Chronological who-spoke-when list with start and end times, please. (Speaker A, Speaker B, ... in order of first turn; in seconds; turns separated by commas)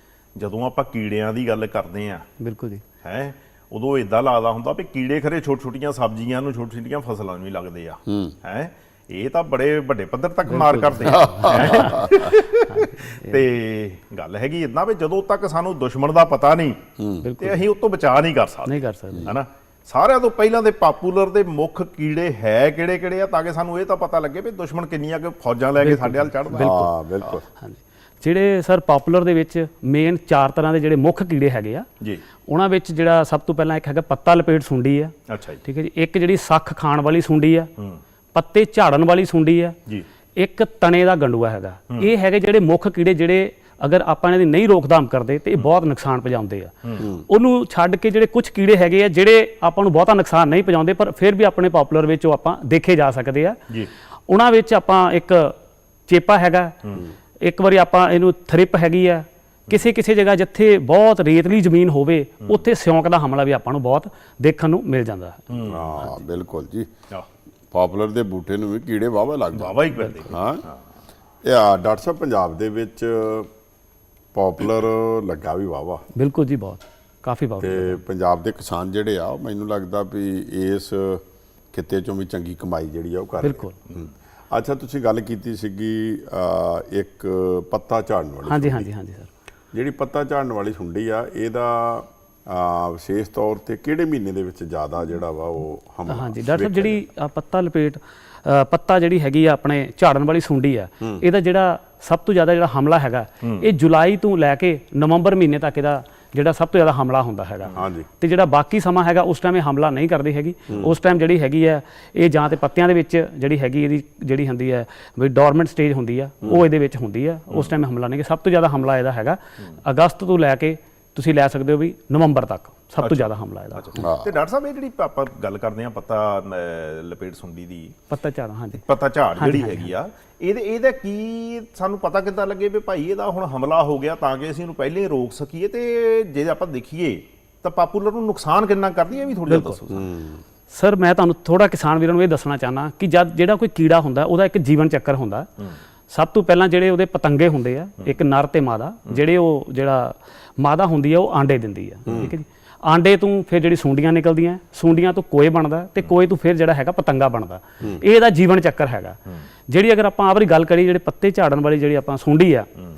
Speaker A: 0.3-2.3, Speaker B: 2.4-2.8, Speaker A: 3.0-16.8, Speaker C: 8.1-8.3, Speaker B: 10.5-13.4, Speaker C: 11.1-12.2, Speaker C: 17.0-17.3, Speaker B: 17.2-17.6, Speaker A: 17.4-26.7, Speaker B: 18.7-19.3, Speaker B: 25.8-26.9, Speaker C: 26.5-27.4, Speaker B: 27.6-31.9, Speaker B: 32.5-35.1, Speaker A: 35.3-35.6, Speaker B: 35.6-37.7, Speaker B: 38.3-39.8, Speaker B: 40.4-53.6, Speaker C: 47.0-47.2, Speaker B: 54.3-56.8, Speaker B: 57.4-65.5, Speaker A: 65.5-66.0, Speaker C: 65.6-66.9, Speaker C: 67.7-70.6, Speaker A: 69.5-70.8, Speaker C: 71.4-73.5, Speaker C: 74.3-76.0, Speaker B: 76.1-78.0, Speaker C: 77.6-88.9, Speaker B: 83.4-83.8, Speaker B: 88.5-89.3, Speaker C: 89.7-97.0, Speaker B: 96.1-124.0, Speaker A: 103.4-103.7, Speaker C: 107.7-108.1, Speaker C: 110.7-110.9, Speaker A: 123.0-127.9, Speaker C: 124.0-124.4, Speaker B: 128.1-128.8, Speaker A: 128.8-140.1, Speaker B: 129.4-129.9, Speaker B: 139.5-139.8, Speaker C: 139.9-140.4, Speaker B: 140.7-145.5, Speaker B: 146.1-159.2, Speaker C: 152.1-152.3, Speaker B: 159.7-162.7